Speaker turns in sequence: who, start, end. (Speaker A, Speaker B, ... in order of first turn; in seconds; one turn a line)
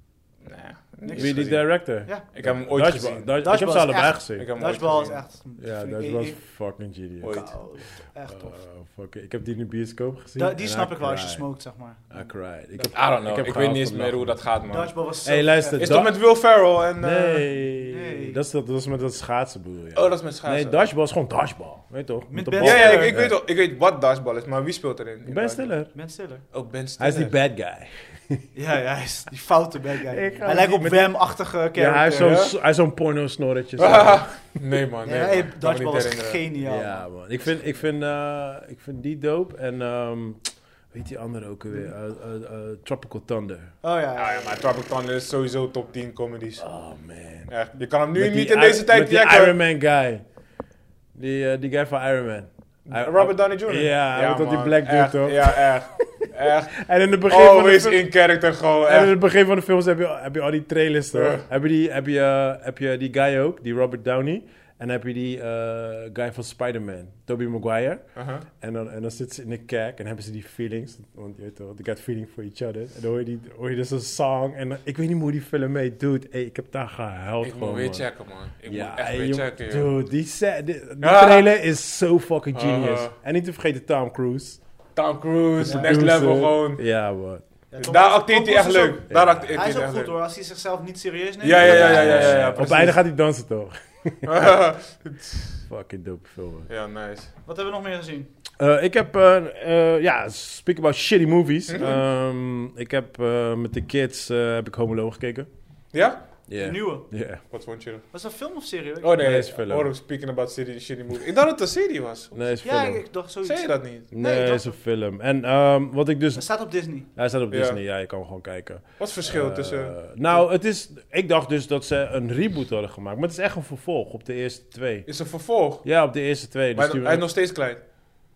Speaker A: 0.4-3.4
Speaker B: 1.0-2.2
Speaker C: 1.1-4.5
Speaker B: 3.4-6.4
Speaker A: 4.4-5.2
Speaker C: 5.6-7.5
Speaker A: 7.2-7.5
Speaker B: 7.2-8.6
Speaker C: 8.3-11.4
Speaker B: 10.4-12.1
Speaker C: 12.1-14.4
Speaker A: 12.8-14.9
Speaker B: 14.7-15.9
Speaker C: 15.2-16.1
Speaker A: 15.8-17.5
Speaker C: 17.0-23.4
Speaker B: 17.8-18.4
Speaker A: 19.9-20.9
Speaker B: 22.3-23.1
Speaker A: 22.6-25.7
Speaker C: 25.2-25.9
Speaker B: 25.9-26.4
Speaker A: 26.5-27.3
Speaker C: 27.0-28.4
Speaker B: 28.5-32.3
Speaker C: 30.1-31.1
Speaker C: 31.7-34.4
Speaker A: 32.1-32.5
Speaker A: 33.8-36.4
Speaker B: 35.0-37.0
Speaker C: 36.6-43.7
Speaker B: 43.8-44.5
Speaker A: 44.1-46.6
Speaker C: 46.6-47.5
Speaker A: 47.5-49.6
Speaker C: 48.1-50.2
Speaker C: 51.1-58.0
Speaker A: 52.9-59.1
Speaker C: 58.9-68.0
Speaker A: 61.1-61.4
Speaker A: 68.1-68.5
Speaker C: 68.6-78.0
Speaker A: 77.4-79.9
Speaker C: 78.7-84.6
Speaker A: 81.0-81.5
Speaker A: 82.5-83.1
Speaker A: 85.0-86.8
Speaker C: 85.6-87.4
Speaker B: 85.6-86.0
Speaker B: 87.7-92.3
Speaker A: 87.8-90.2
Speaker C: 89.1-89.5
Speaker A: 91.4-93.0
Speaker C: 91.6-94.5
Speaker A: 94.2-95.6
Speaker C: 95.7-96.7
Speaker A: 96.7-97.3
Speaker B: 97.5-98.3
Speaker C: 98.6-105.5
Speaker A: 101.7-102.0
Speaker A: 105.9-106.2
Speaker C: 106.5-107.4
Speaker B: 106.6-107.0
Speaker A: 107.5-108.0
Speaker B: 108.1-109.3
Speaker A: 109.0-112.5
Speaker C: 109.2-109.9
Speaker C: 112.3-113.0
Speaker B: 112.6-114.7
Speaker A: 113.4-114.1
Speaker C: 114.1-116.5
Speaker B: 116.3-117.1
Speaker C: 117.1-125.1
Speaker A: 117.5-117.8
Speaker A: 119.0-120.4
Speaker A: 125.1-125.8
Speaker C: 125.8-127.2
Speaker A: 126.7-127.8